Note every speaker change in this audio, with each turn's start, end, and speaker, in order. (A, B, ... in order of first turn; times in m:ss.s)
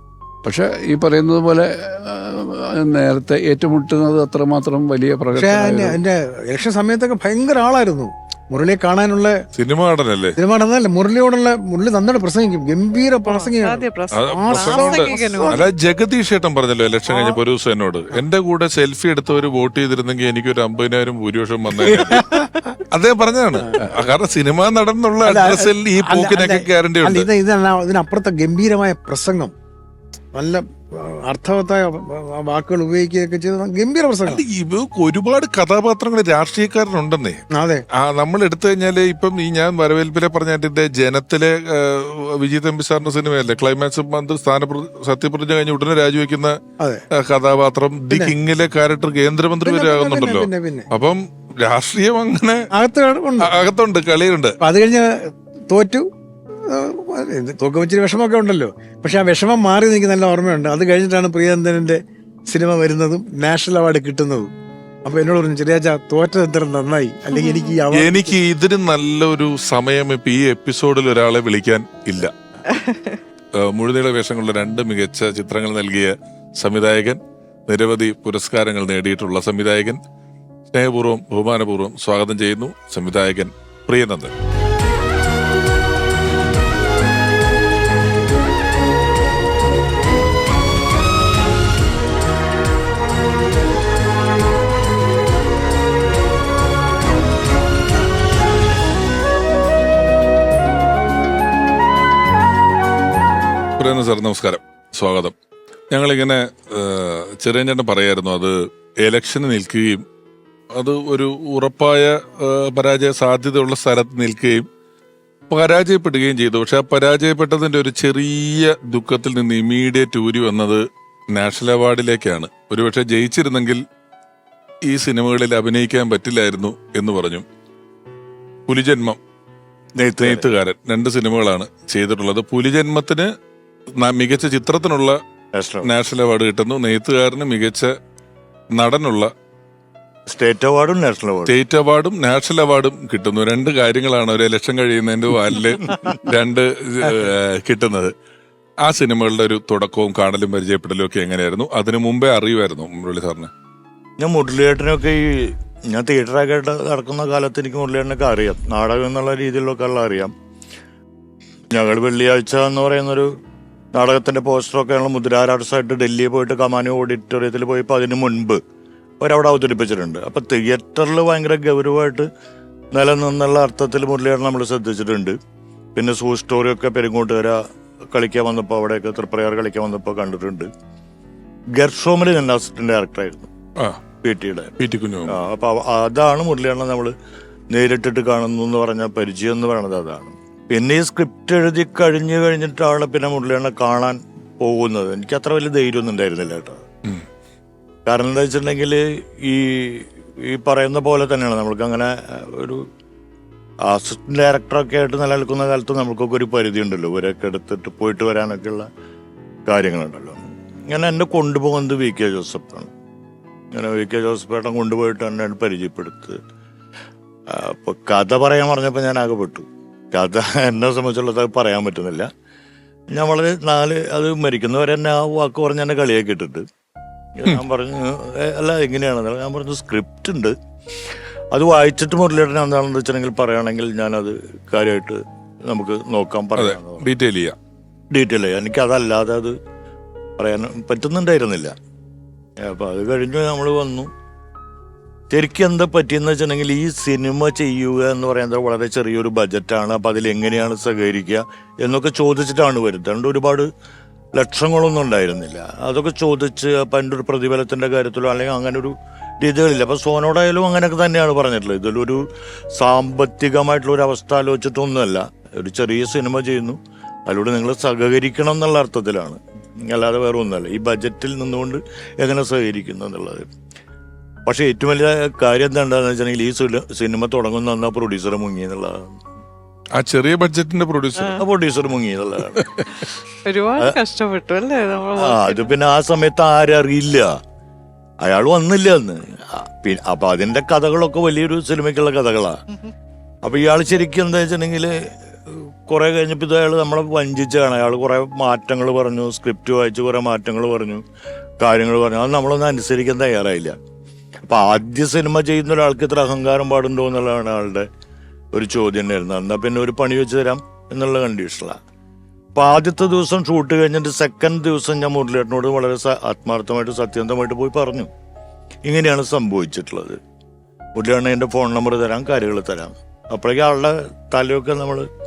0:00.4-0:06.0 A
0:05.3-0:09.4 B
0:09.5-0:10.4 C
0:10.4-0:15.7 B
0:13.2-0:15.6 D
0:14.1-0:22.2 C
0:21.8-0:22.7 B
0:22.9-0:27.3 C
0:25.2-0:29.5 B
0:30.3-0:34.4 B
0:34.3-0:37.4 C
0:37.5-0:37.8 B
0:38.0-0:46.6 C
0:47.2-0:52.7 C
0:49.6-0:50.9 B
0:52.7-0:53.5 B
0:53.4-0:54.6 C
0:54.6-0:55.1 B
0:55.7-0:56.1 B
0:56.7-1:04.5 B
1:05.0-1:08.4 B
1:07.9-1:12.3 C
1:12.8-1:13.1 D
1:13.6-1:20.0 C
1:20.7-1:24.3 C
1:43.8-1:45.4 C
1:45.9-1:50.0 C
1:50.7-1:54.7 C
1:55.5-2:03.8 C
2:04.8-2:07.4 C
2:08.7-2:09.2 C
2:10.0-2:13.3 C
2:10.1-2:10.5 E
2:14.0-2:15.2 C
2:15.5-2:15.9 E
2:15.8-2:18.0 C
2:18.8-2:19.3 C
2:20.3-2:21.5 E
2:21.5-2:28.1 C
2:28.8-2:33.5 C
2:34.2-2:40.3 E
2:41.7-2:43.3 E
2:43.9-2:48.6 E
2:49.2-2:52.3 E
2:52.9-2:55.4 E
2:56.0-2:57.6 E
2:58.1-3:00.7 E
3:01.8-3:03.5 E
3:04.2-3:04.8 E
3:04.8-3:05.4 C
3:05.3-3:07.1 E
3:07.7-3:16.8 E
3:18.1-3:22.8 E
3:23.8-3:28.9 E
3:29.7-3:32.9 E
3:33.7-3:36.4 E
3:37.5-3:42.3 E
3:43.1-3:46.6 E
3:47.4-3:50.6 E
3:51.5-3:57.0 E
3:56.6-3:57.6 C
3:58.1-3:59.6 E
4:00.4-4:01.7 E
4:02.6-4:04.1 E
4:05.3-4:13.7 E
4:14.4-4:22.2 E
4:22.8-4:33.5 E
4:34.5-4:39.1 E
4:40.0-4:41.4 C
4:41.4-4:42.6 E
4:43.4-4:45.7 D
4:45.2-4:47.3 E
4:48.2-4:52.6 E
4:53.4-4:54.9 E
4:55.5-5:01.0 E
5:01.6-5:03.8 E
5:04.5-5:07.9 E
5:08.5-5:11.8 E
5:12.6-5:18.1 E
5:18.8-5:20.2 E
5:21.0-5:25.1 E